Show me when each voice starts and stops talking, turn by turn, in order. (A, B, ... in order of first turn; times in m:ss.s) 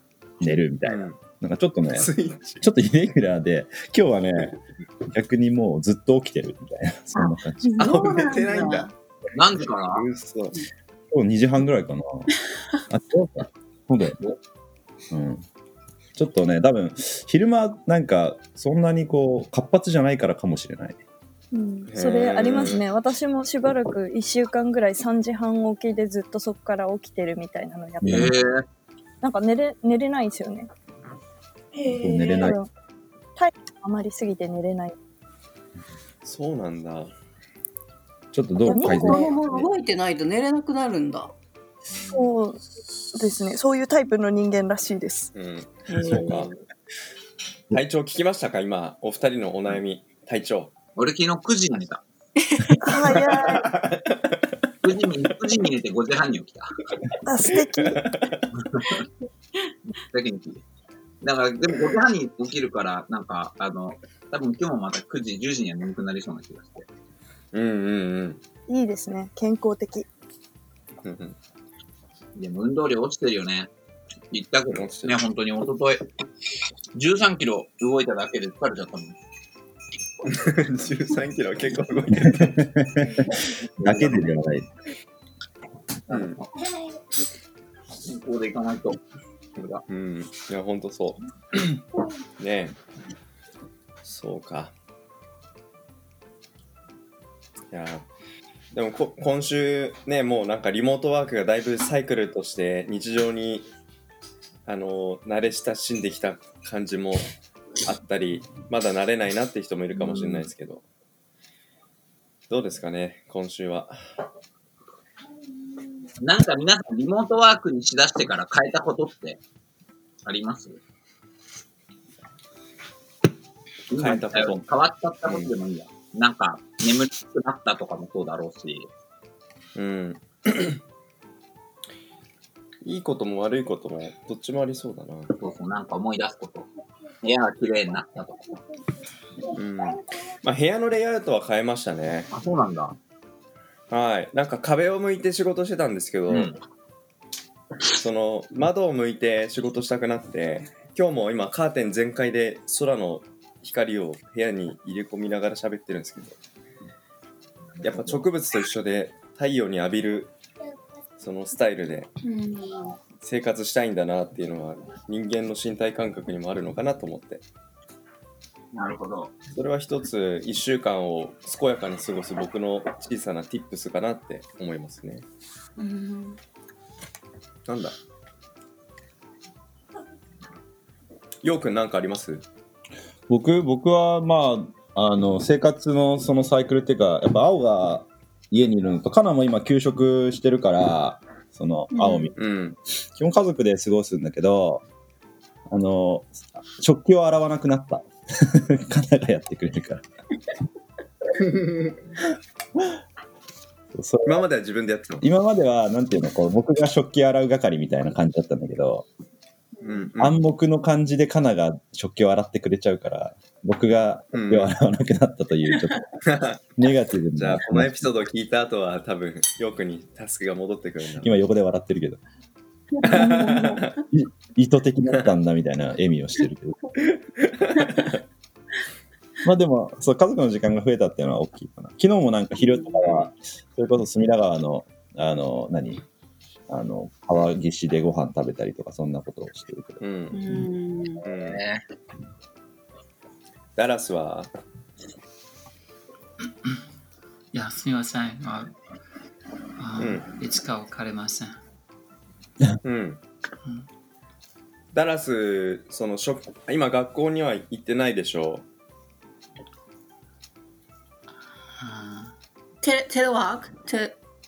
0:00.4-0:02.1 A
0:00.8-0:01.2 B
0:01.9-0:02.6 B
0:02.6-0:04.6 A
0:05.1-0:08.2 A
0:07.2-0:08.9 C
0:07.8-0:08.9 B
0:09.4-0:10.0 D
0:09.6-0:10.6 B
0:11.1-0:12.3 A
0:12.9-0:14.2 A
0:15.1-0:15.4 A
0:16.2-0:21.0 A
0:21.5-0:28.4 E
0:21.9-0:22.8 B
0:28.0-0:28.6 D
0:28.0-0:28.3 A
0:29.2-0:30.7 E
0:31.8-0:32.5 C
0:31.9-0:32.6 A
0:32.2-0:32.7 E
0:33.4-0:35.0 E
0:36.2-0:37.1 B
0:38.3-0:39.7 A
0:38.7-0:39.3 E
0:38.7-0:41.3 C
0:42.1-0:45.3 E
0:45.4-0:46.5 B
0:45.9-0:46.6 C
0:47.7-0:50.7 B
0:51.0-0:52.0 D
0:52.4-0:53.1 C
0:52.8-0:53.7 E
0:53.2-0:54.4 B
0:54.8-0:56.8 D
0:57.2-0:58.0 E
0:57.8-0:58.5 B
0:58.5-0:59.1 D
1:00.0-1:00.6 D
1:01.2-1:06.9 D
1:07.5-1:08.4 B
1:08.7-1:10.1 E
1:11.0-1:11.4 B
1:12.4-1:13.7 D
1:14.3-1:16.1 D
1:14.7-1:15.2 B
1:17.0-1:19.2 D
1:20.2-1:22.7 B
1:22.2-1:23.2 A
1:23.3-1:24.3 D
1:23.8-1:24.7 A
1:26.1-1:26.5 D
1:26.1-1:26.4 B
1:28.0-1:29.0 D
1:29.6-1:29.8 D
1:29.9-1:31.8 B
1:32.4-1:32.8 B
1:34.0-1:34.7 B
1:37.7-1:38.1 B
1:38.7-1:43.7 B
1:44.7-1:47.3 B
1:47.8-1:50.8 B
1:50.0-1:50.5 D
1:52.5-1:54.0 B
1:56.2-1:59.4 D
2:00.2-2:00.8 D
2:03.9-2:08.9 D
2:03.9-2:04.6 B
2:05.2-2:05.5 B
2:09.8-2:10.8 B
2:12.8-2:15.4 B
2:15.4-2:16.7 D
2:17.2-2:18.6 D
2:19.5-2:22.3 B
2:22.3-2:23.0 D
2:23.9-2:26.6 B
2:26.3-2:26.6 D
2:27.9-2:36.4 B
2:37.8-2:38.2 D
2:37.8-2:40.3 B
2:41.2-2:42.1 B
2:42.2-2:43.0 C
2:43.2-2:47.4 B
2:48.7-2:49.3 D
2:49.5-2:55.2 B
2:55.8-2:56.4 C
2:57.7-2:58.0 B
3:01.4-3:02.4 B
3:03.3-3:12.4 A
3:11.9-3:12.3 C
3:12.4-3:12.8 B
3:13.2-3:14.8 A
3:15.7-3:20.0 A
3:21.6-3:21.9 B
3:23.9-3:24.4 A
3:24.3-3:25.2 B
3:25.2-3:29.1 A
3:29.8-3:30.1 C
3:29.8-3:30.4 B
3:30.2-3:36.1 A
3:34.3-3:34.7 B
3:36.3-3:36.6 B
3:36.8-3:38.1 A
3:37.4-3:41.4 B
3:41.2-3:42.2 A
3:42.9-3:44.0 C
3:43.0-3:43.9 B
3:44.0-3:47.0 A
3:47.0-3:48.2 B
3:49.4-3:56.0 A
3:53.0-3:53.3 B
3:56.7-4:00.0 A
4:00.0-4:00.5 B
4:00.3-4:01.2 C
4:01.2-4:01.6 B
4:01.5-4:01.8 D
4:03.8-4:04.5 B
4:07.5-4:08.8 F
4:09.8-4:11.6 F
4:10.0-4:10.3 B
4:12.8-4:13.2 B
4:14.9-4:18.6 B
4:21.8-4:22.4 F
4:22.8-4:24.2 C